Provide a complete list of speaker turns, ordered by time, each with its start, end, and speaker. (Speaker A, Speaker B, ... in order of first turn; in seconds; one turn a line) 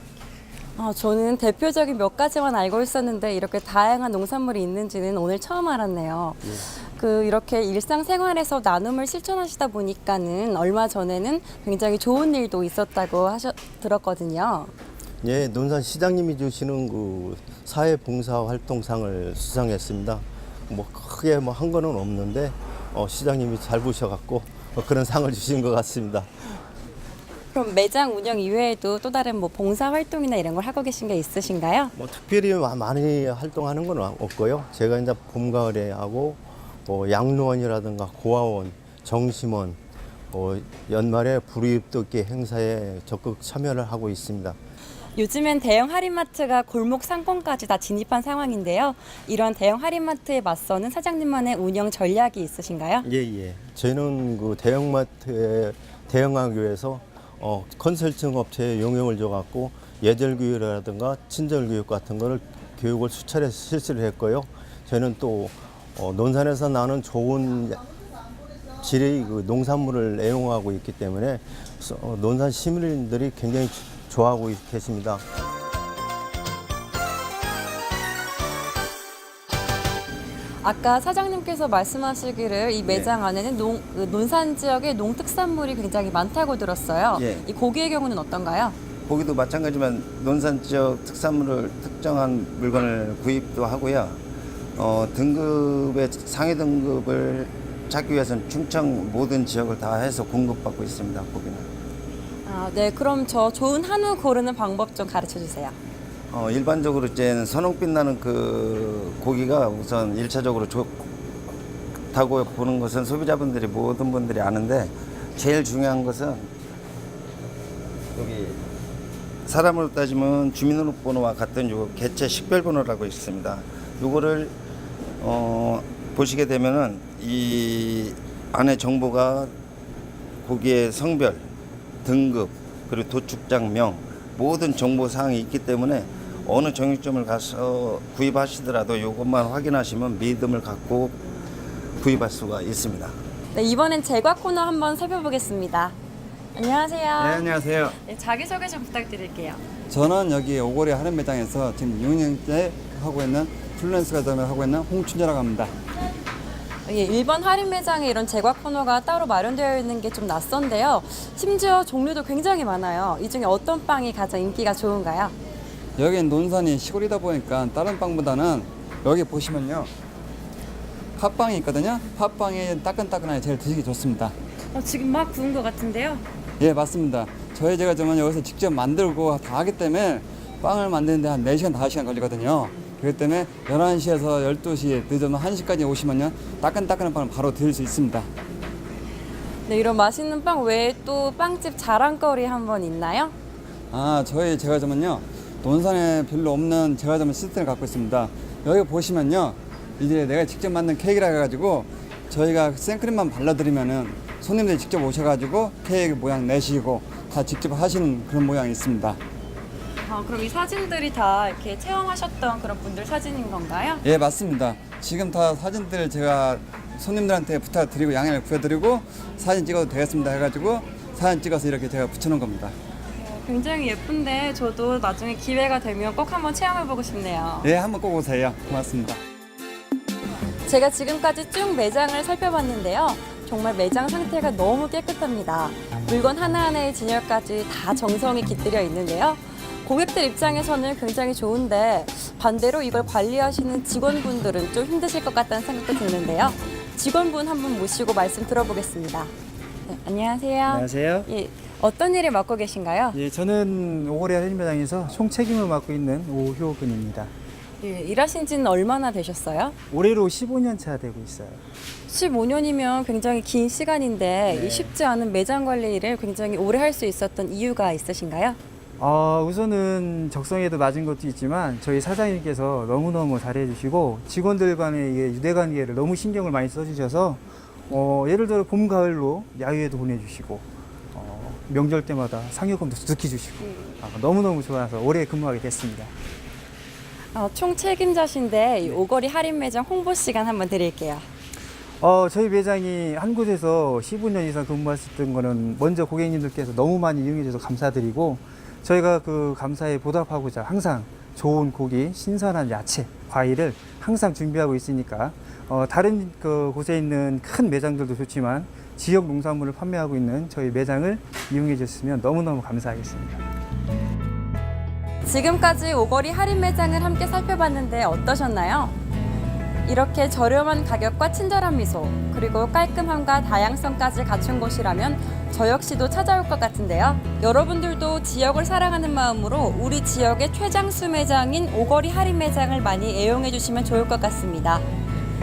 Speaker A: 0.8-14.7
Speaker B: 15.2-26.3
Speaker A: 27.5-31.9
Speaker B: 31.9-39.8
Speaker B: 40.3-44.6
Speaker A: 45.1-53.1
Speaker B: 53.0-67.8
Speaker B: 68.8-75.2
Speaker A: 80.6-88.8
Speaker C: 82.9-83.1
Speaker C: 87.2-87.4
Speaker C: 89.1-94.2
Speaker C: 94.8-101.7
Speaker A: 102.5-105.8
Speaker C: 106.3-111.1
Speaker C: 112.1-116.5
Speaker C: 118.1-118.6
Speaker C: 119.5-124.5
Speaker C: 125.2-129.5
Speaker C: 130.4-131.5
Speaker C: 132.0-141.2
Speaker C: 142.0-143.1
Speaker A: 143.5-145.9
Speaker A: 146.6-147.4
Speaker D: 147.2-148.0
Speaker A: 148.0-149.6
Speaker D: 149.9-155.7
Speaker A: 156.9-165.3
Speaker D: 166.0-169.9
Speaker D: 171.2-174.3
Speaker A: 174.7-176.2
Speaker D: 176.6-188.3
Speaker A: 189.7-193.3
Speaker D: 193.9-209.2
Speaker A: 210.1-214.0
Speaker D: 214.0-222.7
Speaker A: 223.2-227.7
Speaker D: 227.6-229.2
Speaker A: 230.7-249.3
Speaker A: 249.9-253.2
Speaker E: 250.7-251.3
Speaker E: 253.1-257.3
Speaker A: 257.8-259.8
Speaker E: 259.9-261.6
Speaker A: 262.1-268.6
Speaker E: 264.5-264.9
Speaker E: 269.0-286.1
Speaker A: 287.4-291.3
Speaker E: 292.0-313.4
Speaker A: 315.2-318.9
Speaker A: 319.9-334.9